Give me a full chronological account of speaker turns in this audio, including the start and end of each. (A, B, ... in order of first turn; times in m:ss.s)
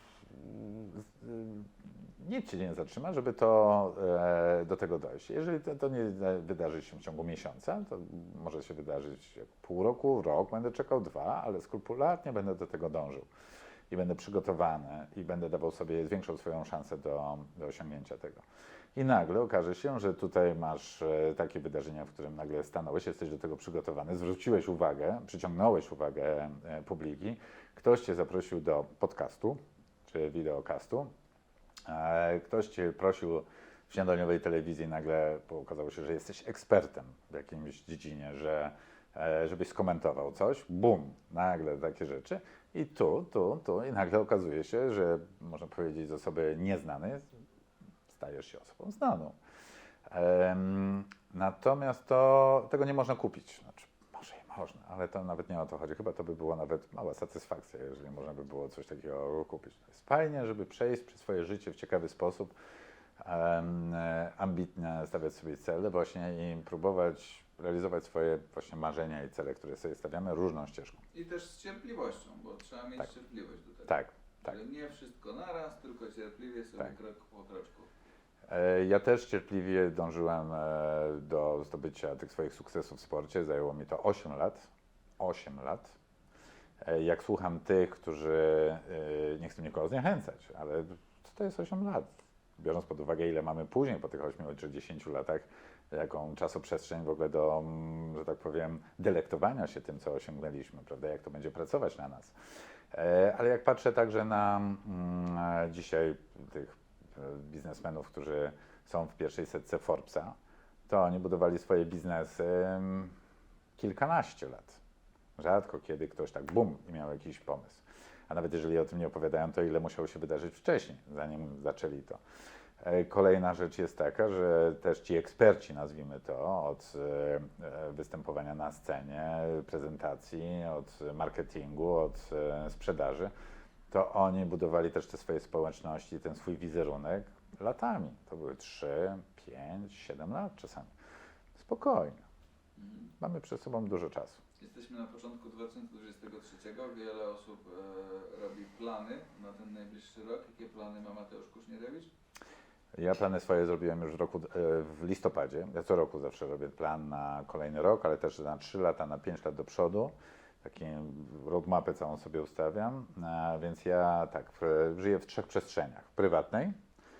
0:00.3-0:13.3 A
0:13.9-0:18.4 A
0:18.9-0:31.1 A
0:31.8-0:47.2 A
0:48.1-0:49.4 A
0:50.1-1:02.5 A
1:03.2-1:11.0 A
1:11.1-1:17.9 B
1:13.9-1:14.5 A
1:18.5-1:24.7 A
1:25.2-1:26.0 A
1:26.8-1:42.3 A
1:42.9-1:50.4 A
1:50.9-1:53.1 A
1:53.8-1:54.8 A
1:55.4-2:02.2 A
2:02.8-2:13.3 A
2:13.9-2:20.9 A
2:21.5-2:22.2 A
2:22.8-2:23.1 B
2:23.2-2:24.4 A
2:24.6-2:32.1 B
2:33.0-2:46.7 A